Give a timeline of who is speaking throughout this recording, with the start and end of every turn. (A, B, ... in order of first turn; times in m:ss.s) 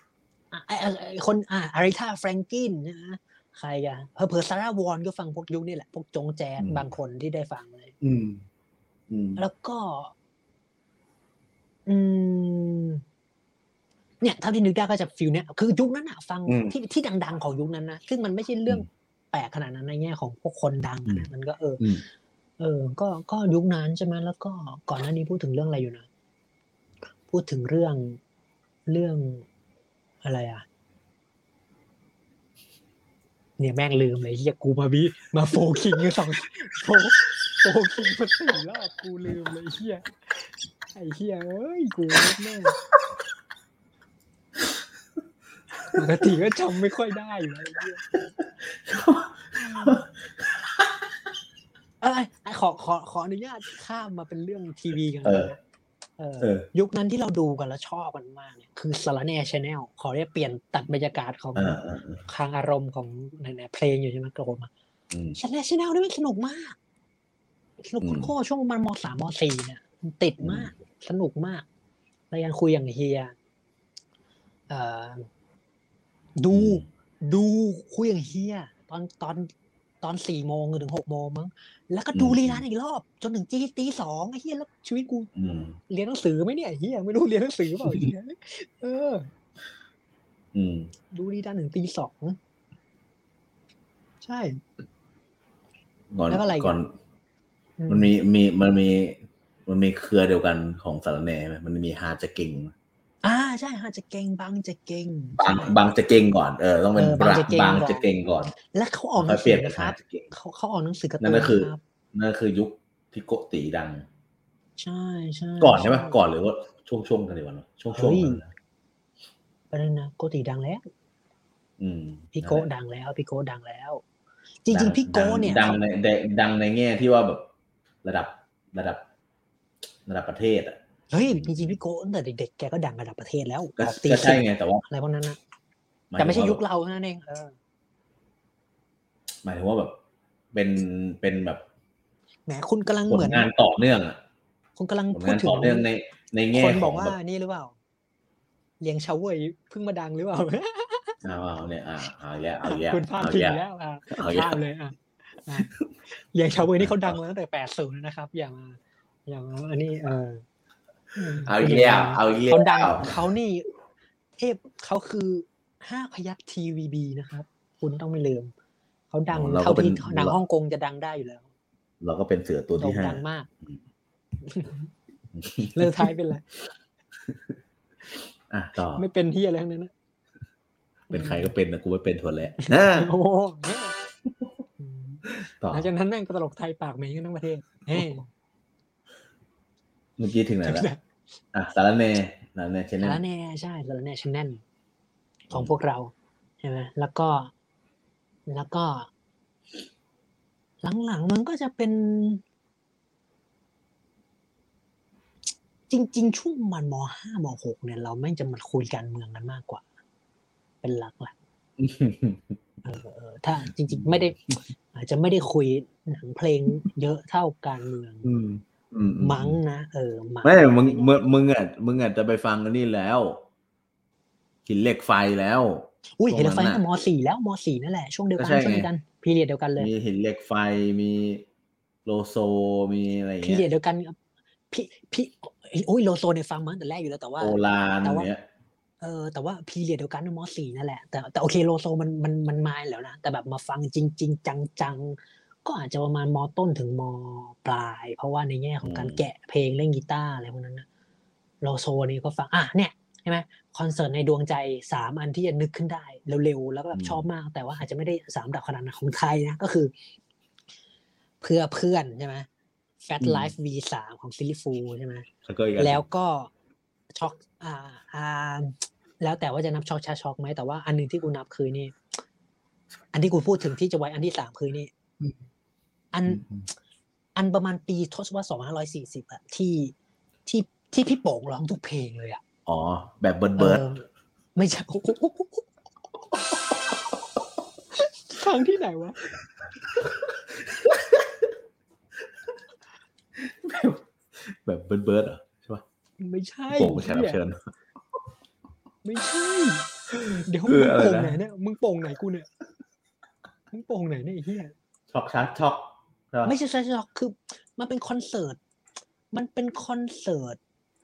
0:00.5-0:08.0 A
0:06.6-0:06.9 B
0:08.0-0:08.4 B
0:09.1-0:09.4 B
0:09.4-0:10.1 A
0:11.9-0:13.0 A
0:14.2-0:21.9 A
0:16.5-0:16.8 B
0:22.6-0:26.1 A
0:27.3-0:28.2 A
0:28.9-0:29.5 A
0:30.2-0:30.6 A
0:33.6-0:40.1 A
0:40.9-0:42.8 A
0:45.9-0:48.1 A
0:48.4-0:51.0 B
0:49.6-0:50.1 A
0:52.0-0:55.6 A
0:55.2-0:55.5 B
0:56.2-1:04.7 A
0:56.4-0:56.7 B
1:01.6-1:02.2 B
1:05.1-1:05.4 B
1:05.4-1:06.8 A
1:07.8-1:11.6 A
1:08.0-1:08.3 B
1:10.4-1:10.7 B
1:12.3-1:13.4 A
1:14.7-1:15.3 A
1:16.4-1:19.5 A
1:16.5-1:16.8 B
1:20.0-1:25.3 A
1:22.2-1:22.6 B
1:25.4-1:25.8 B
1:25.9-1:29.3 A
1:30.5-1:30.9 B
1:31.1-1:32.4 A
1:34.2-1:34.6 A
1:36.1-1:36.9 B
1:36.3-1:36.8 A
1:37.8-1:38.1 A
1:37.9-1:42.7 B
1:43.2-1:45.8 A
1:45.4-1:48.5 B
1:47.0-1:48.1 A
1:48.7-1:51.8 A
1:49.2-1:50.3 B
1:51.2-1:54.1 B
1:54.8-1:56.2 A
1:55.6-1:58.5 B
1:57.9-1:58.4 A
1:59.7-2:00.8 A
2:01.8-2:02.6 B
2:02.4-2:04.0 A
2:04.6-2:05.8 A
2:04.7-2:07.5 B
2:08.0-2:09.0 B
2:10.1-2:11.8 B
2:11.1-2:15.4 A
2:13.8-2:14.8 B
2:16.1-2:16.6 B
2:16.2-2:17.6 A
2:19.4-2:20.0 B
2:20.5-2:21.6 B
2:22.5-2:23.5 A
2:23.1-2:24.2 B
2:24.8-2:25.9 A
2:25.1-2:27.2 B
2:26.5-2:27.8 A
2:28.8-2:31.2 A
2:31.2-2:34.6 B
2:32.6-2:40.4 A
2:35.6-2:35.9 B
2:36.6-2:37.2 B
2:41.2-2:43.7 A
2:41.4-2:43.2 B
2:44.4-2:48.5 A
2:49.1-2:51.5 A
2:49.3-2:50.4 B
2:52.0-2:53.8 B
2:52.8-2:53.5 A
2:54.4-2:54.9 A
2:55.4-2:56.2 B
2:55.6-2:56.4 A
2:57.2-2:57.6 B
2:58.5-2:59.0 B
2:59.0-2:59.9 A
3:01.1-3:01.5 A
3:01.1-3:03.1 B
3:02.6-3:04.0 A
3:04.8-3:08.3 A
3:05.4-3:05.9 B
3:10.2-3:10.9 B
3:10.6-3:11.0 A
3:11.5-3:13.2 B
3:13.0-3:14.6 A
3:15.5-3:17.5 A
3:18.5-3:19.1 A
3:20.8-3:22.4 A
3:25.9-3:29.8 A
3:30.8-3:31.4 A
3:31.8-3:32.6 B
3:32.8-3:34.4 A
3:33.9-3:34.3 B
3:34.9-3:38.3 A
3:38.2-3:39.6 B
3:39.2-3:41.2 A
3:40.4-3:43.4 B
3:44.6-3:46.8 B
3:46.2-3:49.9 A
3:48.4-3:48.9 B
3:49.8-3:51.4 B
3:52.0-3:53.6 B
3:53.4-3:54.2 A
3:54.7-3:58.3 A
3:57.4-3:58.4 B
3:59.0-4:10.9 A
4:08.8-4:09.2 B
4:11.6-4:19.9 A
4:16.9-4:17.3 B
4:21.4-4:22.5 A
4:23.0-4:26.5 A
4:23.2-4:23.5 B
4:25.4-4:26.0 B
4:27.1-4:32.0 A
4:33.1-4:34.9 A
4:36.1-4:36.5 A
4:36.3-4:36.6 B
4:37.4-4:40.0 A
4:40.5-4:42.4 A
4:42.7-4:43.8 B
4:43.6-4:44.0 A
4:44.6-4:45.6 A
4:48.0-4:49.2 A
4:49.9-4:51.5 B
4:53.4-4:55.8 B
4:56.2-4:57.4 A
4:56.7-4:57.7 B
4:59.0-5:02.5 A
5:00.6-5:01.4 B
5:03.7-5:04.7 A
5:05.1-5:06.6 B
5:06.4-5:08.6 A
5:09.3-5:10.6 A